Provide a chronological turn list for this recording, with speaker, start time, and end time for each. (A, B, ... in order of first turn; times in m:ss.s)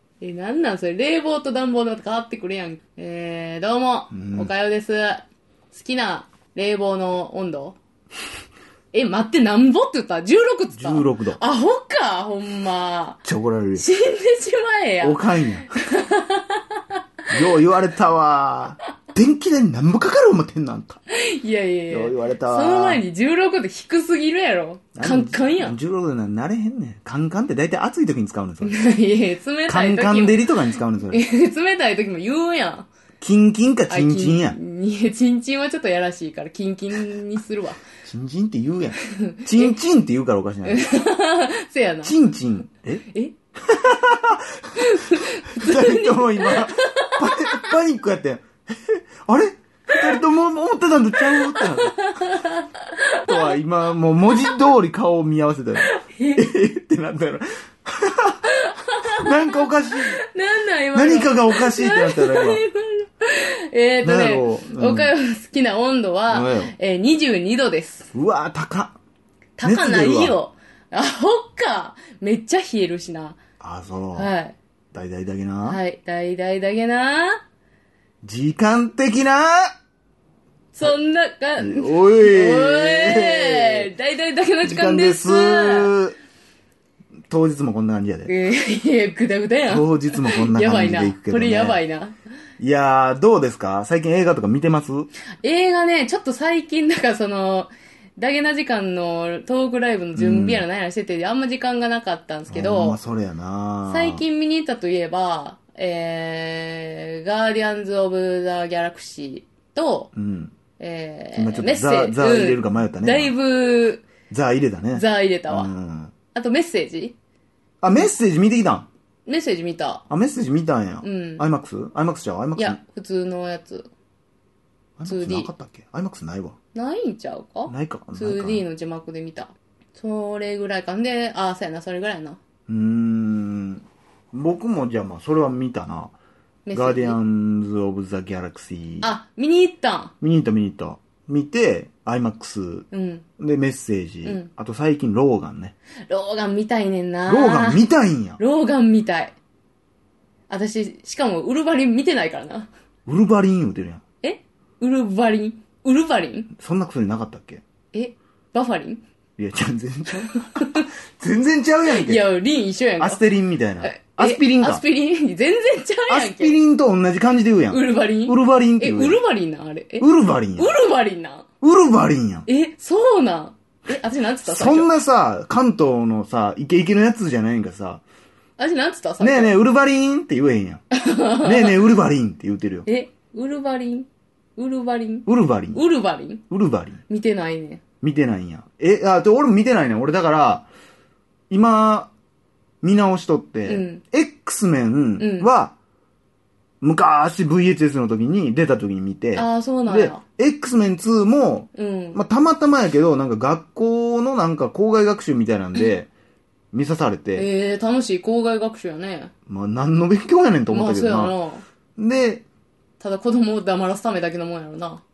0:00.2-0:07.8 A
0:04.1-0:04.5 B
0:08.9-0:13.2 A
0:10.7-0:11.4 B
0:13.2-0:13.8 B
0:13.8-0:16.8 A
0:15.0-0:15.8 B
0:17.3-0:21.0 B
0:21.1-0:25.8 A
0:21.9-0:23.0 B
0:25.0-0:28.8 B
0:28.6-0:32.9 A
0:29.7-0:31.2 B
0:33.2-0:34.6 B
0:33.9-0:37.8 A
0:38.0-0:41.0 B
0:39.0-0:39.7 A
0:40.7-0:42.1 A
0:42.0-0:43.0 B
0:43.7-0:44.8 B
0:44.8-0:47.6 A
0:45.5-0:52.1 B
0:51.2-0:53.5 A
0:53.2-1:00.2 B
0:54.3-0:54.6 A
0:55.8-0:56.4 A
0:58.5-1:08.1 A
1:00.9-1:02.6 B
1:04.0-1:05.1 B
1:06.3-1:06.7 B
1:08.1-1:09.0 B
1:09.6-1:13.4 A
1:09.6-1:10.4 B
1:13.6-1:14.3 B
1:14.1-1:14.5 A
1:14.9-1:15.8 B
1:15.6-1:17.4 A
1:18.2-1:19.7 B
1:20.7-1:25.9 A
1:21.6-1:23.9 B
1:24.6-1:26.2 B
1:27.3-1:28.3 B
1:28.2-1:32.2 A
1:29.7-1:31.8 B
1:32.6-1:35.1 B
1:35.4-1:43.0 A
1:40.1-1:40.6 B
1:42.5-1:44.2 B
1:43.9-1:50.1 A
1:50.1-1:50.5 B
1:50.8-1:54.1 A
1:51.3-1:53.3 B
1:54.3-1:56.1 B
1:54.9-1:55.7 A
1:56.3-1:57.2 A
1:57.8-1:58.9 B
1:59.2-2:00.0 A
2:00.1-2:02.8 B
2:01.0-2:01.4 A
2:02.6-2:03.9 A
2:05.0-2:06.6 B
2:05.0-2:05.5 A
2:06.7-2:12.4 A
2:07.7-2:08.6 B
2:12.7-2:16.1 B
2:16.6-2:17.2 A
2:16.7-2:19.1 B
2:19.0-2:20.1 A
2:20.2-2:22.9 B
2:22.9-2:23.2 A
2:23.4-2:25.7 B
2:26.1-2:27.8 A
2:27.3-2:28.4 B
2:28.4-2:29.3 A
2:30.5-2:32.7 A
2:33.0-2:34.0 B
2:34.2-2:36.5 A
2:36.5-2:37.6 B
2:37.9-2:39.0 A
2:39.4-2:42.2 B
2:40.4-2:40.8 A
2:41.9-2:43.2 A
2:43.0-2:44.8 B
2:43.8-2:46.6 A
2:46.1-2:49.2 B
2:47.7-2:51.4 A
2:50.0-2:50.7 B
2:51.6-2:52.5 B
2:52.5-2:54.9 A
2:54.4-2:58.0 B
2:58.6-2:59.5 A
2:59.2-3:00.8 B
3:00.9-3:01.8 A
3:01.4-3:02.9 B
3:02.9-3:06.4 A
3:05.3-3:05.8 B
3:06.5-3:07.0 B
3:07.1-3:07.8 A
3:08.0-3:10.7 B
3:11.5-3:12.1 B
3:12.8-3:15.7 B
3:13.7-3:14.0 A
3:15.2-3:15.5 A
3:16.8-3:26.1 B
3:19.4-3:20.2 A
3:21.8-3:22.2 A
3:26.7-3:27.5 B
3:27.4-3:29.3 A
3:29.5-3:31.3 B
3:30.7-3:31.6 A
3:32.0-3:32.4 B
3:33.0-3:35.0 A